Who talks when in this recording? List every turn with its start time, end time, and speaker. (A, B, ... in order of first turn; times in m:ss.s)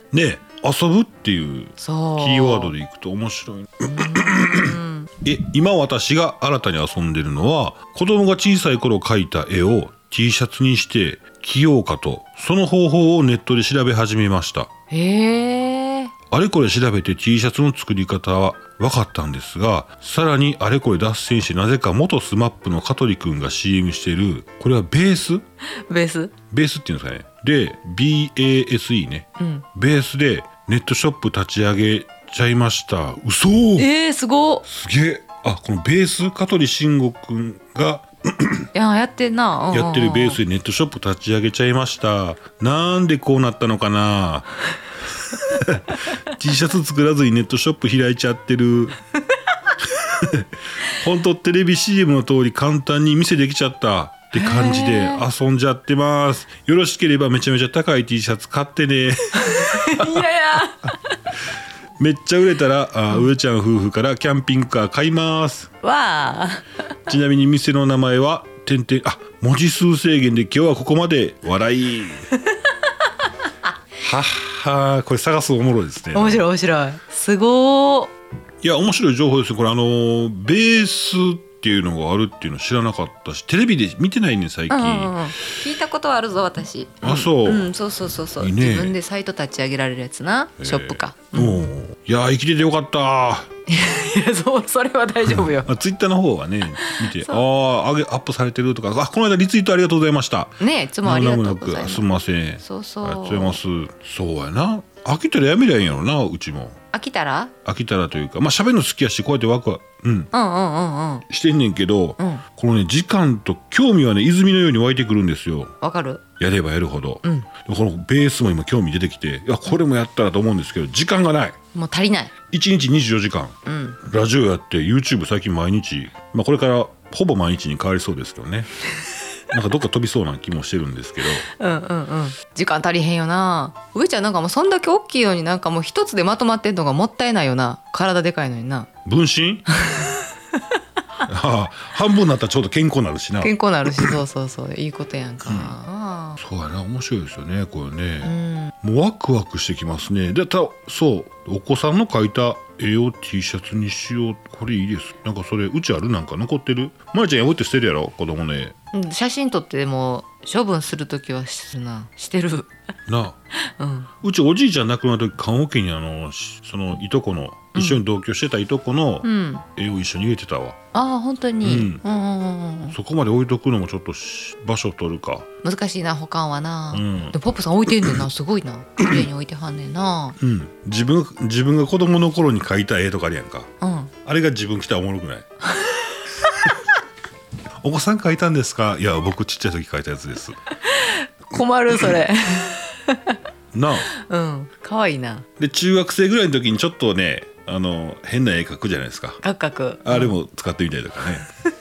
0:00.1-0:14.7 A
0:01.8-0:02.7 B
0:03.8-0:05.1 B
0:14.9-0:16.1 B
0:16.3-0:25.4 A
0:25.9-0:26.3 B
0:26.5-0:33.9 A
0:29.4-0:29.6 B
0:33.8-0:34.6 B
0:34.6-0:38.7 A
0:38.7-0:40.4 B
0:39.7-0:44.5 A
0:45.2-0:49.0 A
0:49.8-1:00.3 A
0:54.3-0:55.2 B
0:59.5-1:01.1 B
1:02.0-1:05.7 A
1:05.8-1:06.6 B
1:07.1-1:12.3 A
1:14.0-1:16.4 A
1:16.1-1:18.1 B
1:18.6-1:25.3 A
1:24.7-1:31.6 B
1:27.0-1:27.7 A
1:28.4-1:29.0 A
1:30.6-1:33.5 A
1:33.7-1:35.7 B
1:35.2-1:46.8 A
1:36.8-1:37.4 B
1:40.6-1:42.0 B
1:42.6-1:43.6 B
1:46.9-1:47.5 B
1:47.6-1:50.3 A
1:50.3-1:51.2 B
1:51.3-1:55.7 A
1:55.8-1:56.2 B
1:56.4-2:01.6 A
2:01.7-2:02.3 B
2:02.5-2:08.7 A
2:03.6-2:04.0 B
2:09.5-2:11.4 A
2:11.5-2:18.9 B
2:19.0-2:19.6 A
2:19.7-2:20.3 B
2:21.2-2:24.2 A
2:23.4-2:26.4 B
2:25.4-2:25.7 A
2:26.4-2:38.7 A
2:28.2-2:28.7 B
2:38.9-2:42.7 B
2:43.1-2:43.4 A
2:43.8-2:44.1 B
2:44.2-2:50.8 A
2:47.7-2:48.0 B
2:49.2-2:49.6 B
2:50.9-2:53.0 B
2:51.6-2:52.0 A
2:52.9-2:55.5 A
2:55.6-3:00.4 B
2:56.9-2:57.3 A
2:57.9-2:58.2 A
3:00.4-3:03.7 A
3:03.8-3:04.1 B
3:04.2-3:05.5 A
3:07.8-3:10.6 A
3:10.8-3:13.4 B
3:13.7-3:14.1 A
3:14.1-3:15.4 B
3:15.6-3:19.4 A
3:19.4-3:20.3 B
3:20.0-3:21.4 A